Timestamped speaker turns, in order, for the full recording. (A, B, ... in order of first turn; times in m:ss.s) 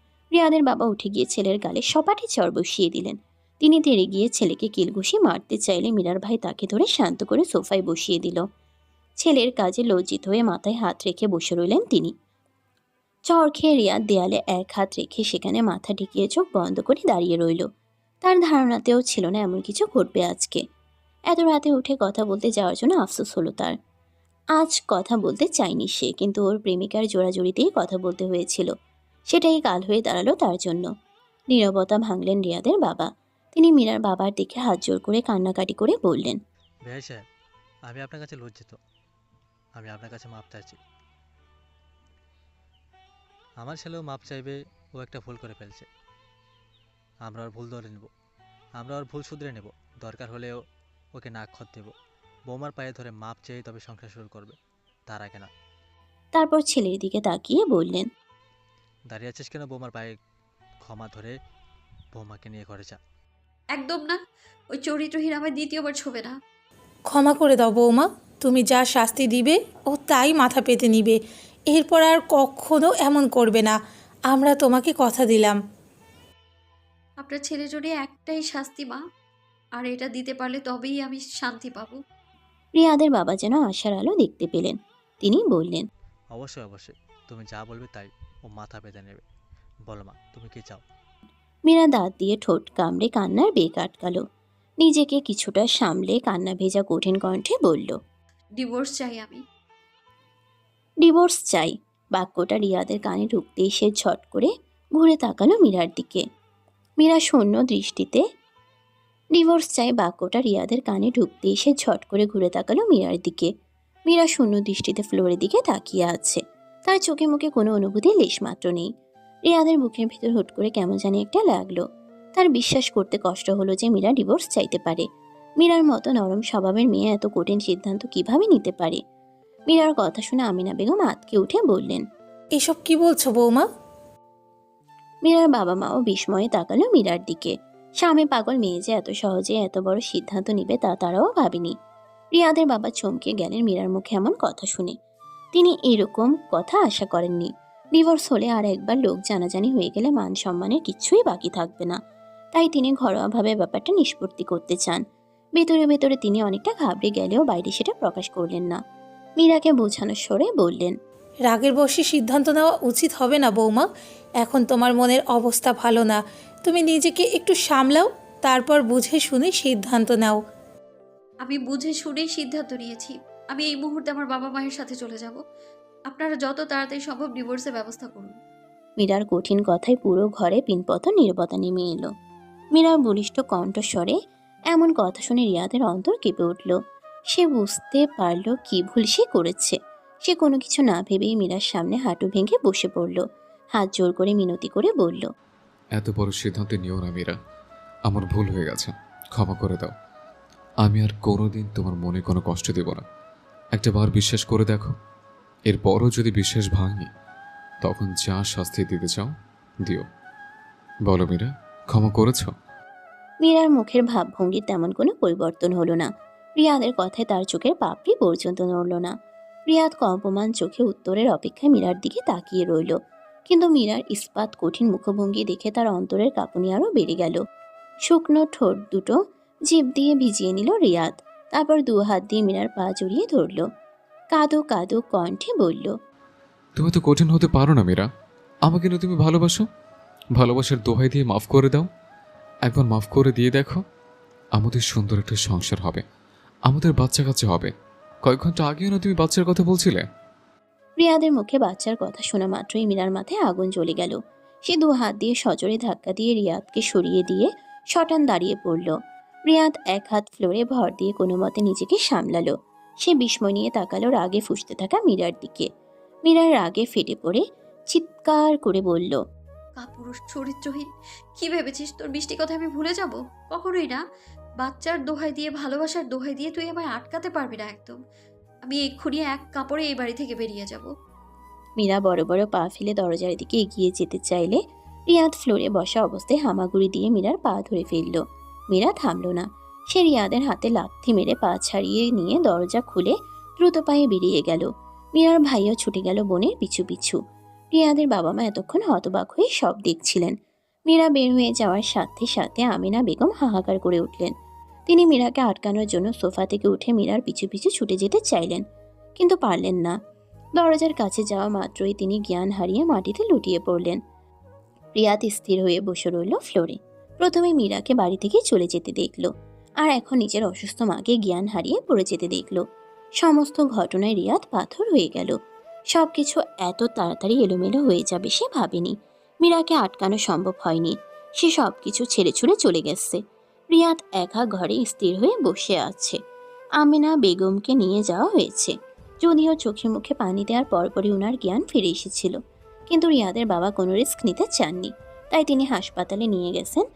0:00.3-0:08.4 A
0:09.2-0:12.1 A
0:13.3-0:17.7 A
0:18.2-0:20.6 A
0:21.3-0:23.8 A
0:24.6-0:28.7 A
0:29.3-0:30.9 A
0:31.5-0:36.4 A
0:36.9-0:37.2 B
0:37.9-0:38.8 B
0:39.8-0:40.8 B
0:43.6-0:45.9 B
0:47.3-0:48.1 B
0:48.8-0:50.6 B
0:51.2-0:51.9 B
0:52.5-0:54.6 B
0:55.1-0:55.5 B
0:56.4-0:58.1 A
0:59.1-1:00.1 B
1:00.8-1:01.4 B
1:02.1-1:03.0 B
1:03.8-1:04.2 C
1:04.7-1:06.4 C
1:07.1-1:11.2 D
1:11.7-1:13.8 D
1:14.3-1:15.6 D
1:17.2-1:19.0 C
1:19.8-1:22.0 C
1:22.8-1:25.9 A
1:26.3-1:29.2 B
1:29.9-1:30.8 B
1:31.7-1:34.2 A
1:34.8-1:38.0 A
1:38.6-1:39.4 C
1:41.0-1:46.2 A
1:47.0-1:48.2 A
1:49.4-1:53.5 A
1:54.1-1:58.9 A
1:59.5-2:01.8 A
2:02.4-2:05.1 A
2:05.6-2:09.0 A
2:09.7-2:12.0 A
2:12.6-2:13.7 D
2:15.3-2:21.7 A
2:22.4-2:24.9 A
2:25.6-2:32.0 A
2:32.6-2:35.0 A
2:35.6-2:38.8 A
2:39.4-2:40.9 A
2:41.5-2:43.9 D
2:44.4-2:50.4 D
2:51.4-2:55.4 C
2:56.1-2:58.4 C
2:59.0-3:02.1 A
3:02.8-3:04.2 A
3:04.7-3:06.8 A
3:07.3-3:13.2 A
3:13.8-3:15.3 A
3:16.0-3:17.4 E
3:18.1-3:19.9 E
3:20.8-3:23.0 E
3:23.8-3:24.9 E
3:25.7-3:27.1 E
3:27.8-3:29.3 E
3:31.1-3:32.5 E
3:33.4-3:39.2 A
3:39.7-3:43.0 A
3:43.5-3:47.4 A
3:48.1-3:49.2 A
3:49.7-3:53.6 A
3:54.3-3:55.9 A
3:56.8-3:58.1 E
3:58.7-3:59.6 E
4:00.4-4:01.9 E
4:02.7-4:03.8 E
4:04.6-4:06.0 E
4:06.7-4:07.7 E
4:08.2-4:10.0 E
4:11.0-4:18.9 A
4:19.5-4:22.5 A
4:23.0-4:25.7 A
4:26.3-4:29.2 A
4:29.8-4:34.0 C
4:34.6-4:38.0 C
4:38.7-4:40.9 C
4:41.8-4:57.2 A
4:57.7-5:00.3 A
5:00.9-5:04.3 A
5:04.9-5:08.6 A
5:09.2-5:10.0 A
5:10.6-5:14.0 A
5:15.0-5:19.3 A
5:19.8-5:22.6 A
5:23.2-5:25.4 A
5:25.9-5:33.2 A
5:33.7-5:36.2 A
5:36.8-5:42.4 A
5:42.9-5:46.8 A